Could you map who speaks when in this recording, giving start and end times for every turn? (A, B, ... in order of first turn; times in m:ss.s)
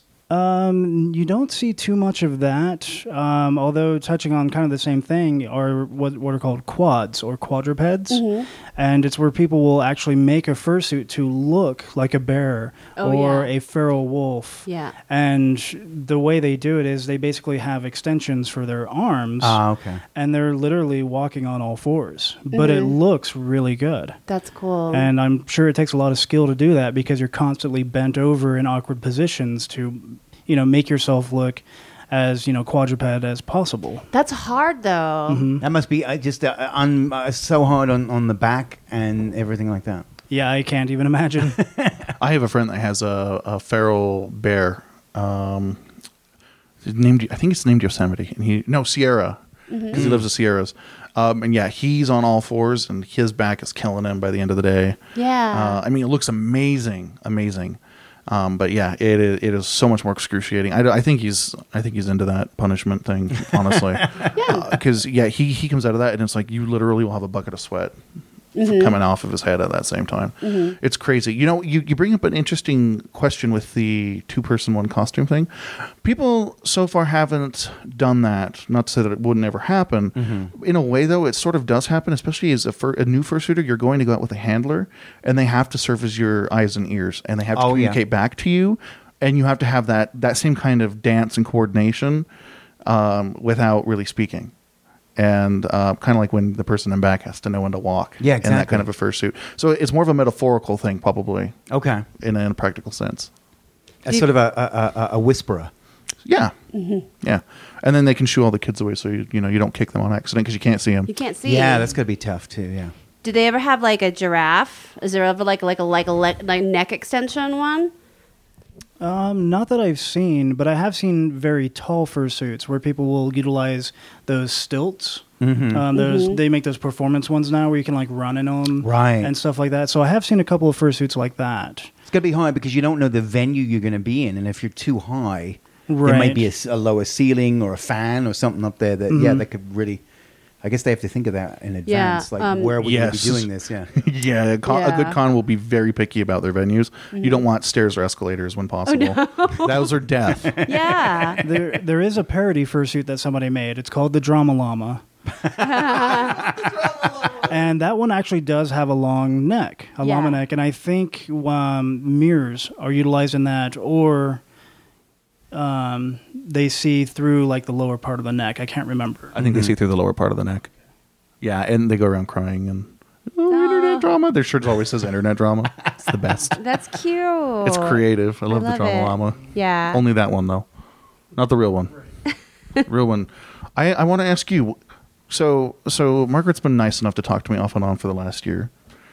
0:00.3-0:08.2 A
0:08.1-0:08.5 B
0:08.7-0:19.6 A
0:13.0-0:13.5 B
0:14.6-0:14.9 B
0:19.4-0:20.0 C
0:20.1-0:24.2 A
0:22.5-0:23.0 B
0:24.3-0:25.1 B
0:24.9-0:34.0 A
0:34.1-0:35.4 B
0:35.3-0:35.6 A
0:35.6-0:40.1 C
0:40.3-0:41.6 A
0:41.6-0:42.1 C
0:42.2-0:45.8 D
0:46.8-0:55.0 D
0:49.7-0:50.0 B
0:49.9-0:50.3 C
0:55.1-0:55.8 B
0:55.5-1:08.0 D
1:03.5-1:04.3 C
1:04.3-1:04.7 B
1:08.6-1:08.9 B
1:08.6-1:32.2 D
1:10.4-1:10.8 B
1:20.2-1:20.5 C
1:27.5-1:28.0 C
1:32.8-1:34.5 D
1:35.2-1:41.6 D
1:38.2-1:38.9 C
1:41.7-1:42.0 C
1:42.2-1:43.3 D
1:44.0-1:45.7 C
1:46.2-1:46.5 D
1:46.7-1:47.0 B
1:47.2-1:51.1 D
1:51.1-1:52.0 B
1:51.4-1:52.9 C
1:53.2-1:57.9 B
1:59.0-2:11.9 A
2:05.4-2:05.9 C
2:05.9-2:06.4 B
2:08.8-2:09.3 C
2:12.1-2:20.0 C
2:15.9-2:16.5 A
2:19.1-2:19.5 A
2:20.6-2:23.9 C
2:21.8-2:22.7 B
2:22.8-2:30.6 D
2:24.6-2:25.2 B
2:27.1-2:27.4 B
2:28.9-2:29.9 B
2:30.2-2:31.8 C
2:30.6-2:31.4 B
2:31.4-2:35.0 A
2:35.3-2:37.3 C
2:35.6-2:36.5 B
2:37.4-2:44.4 A
2:40.0-2:40.4 B
2:45.5-2:49.4 A
2:49.3-2:50.7 D
2:49.4-2:49.7 C
2:51.4-2:56.6 D
2:53.5-2:54.1 B
2:56.5-3:00.0 B
2:57.6-3:00.6 D
3:01.3-3:02.0 D
3:02.8-3:04.8 D
3:05.3-3:08.7 D